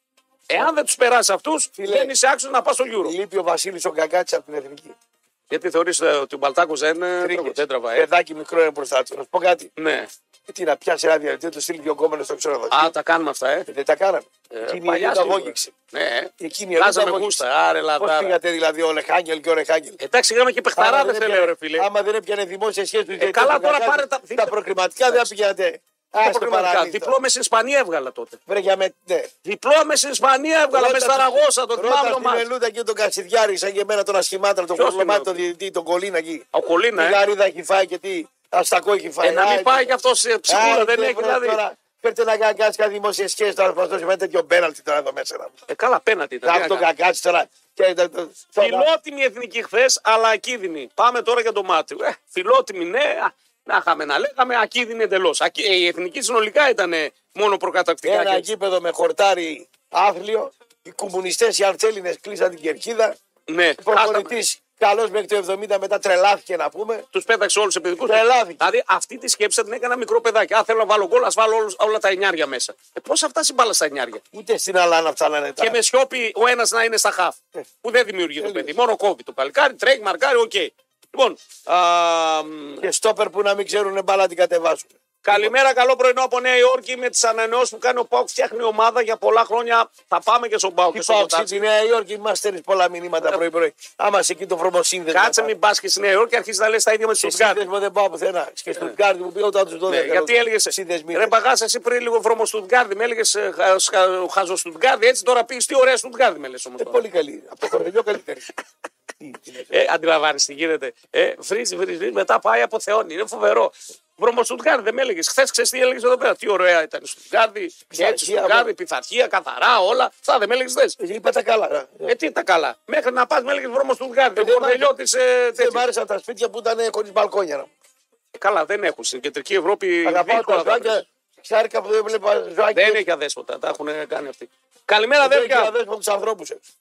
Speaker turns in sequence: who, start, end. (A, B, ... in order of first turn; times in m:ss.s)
0:00.5-0:03.1 A
0:01.8-0:02.1 B
0:03.0-0:05.0 B
0:05.5-0:08.1 A
0:07.2-0:09.7 B
0:09.8-0:10.1 A
0:10.5-0:12.9 B
0:12.7-0:13.7 A
0:13.7-0:15.7 B
0:14.5-0:18.4 A
0:16.4-0:17.4 B
0:18.0-0:20.0 B
0:20.0-0:21.9 A
0:20.8-0:27.2 B
0:23.2-0:25.3 A
0:26.2-0:28.4 A
0:28.5-0:29.3 B
0:29.4-0:32.5 A
0:30.7-0:36.4 B
0:34.8-0:35.4 A
0:36.5-0:37.2 A
0:37.0-0:39.9 B
0:39.2-0:41.6 A
0:40.5-0:45.5 B
0:45.7-0:46.9 A
0:46.4-0:48.9 B
0:48.6-0:58.5 A
0:58.0-1:03.2 B
1:03.5-1:04.4 A
1:03.8-1:07.1 B
1:07.1-1:14.2 A
1:08.0-1:08.7 B
1:14.3-1:15.8 B
1:15.6-1:22.8 A
1:18.4-1:18.7 B
1:22.8-1:25.5 B
1:25.2-1:31.6 A
1:30.9-1:35.5 B
1:35.1-1:37.6 A
1:37.2-1:41.3 B
1:39.9-1:47.0 A
1:46.8-1:48.5 B
1:49.2-1:49.8 B
1:49.7-2:01.0 A
1:57.9-1:58.7 B
2:01.0-2:02.1 B
2:02.1-2:05.8 A
2:04.4-2:04.9 B
2:05.6-2:07.7 B
2:08.4-2:11.0 A
2:10.0-2:13.0 B
2:12.7-2:15.7 A
2:15.2-2:16.6 B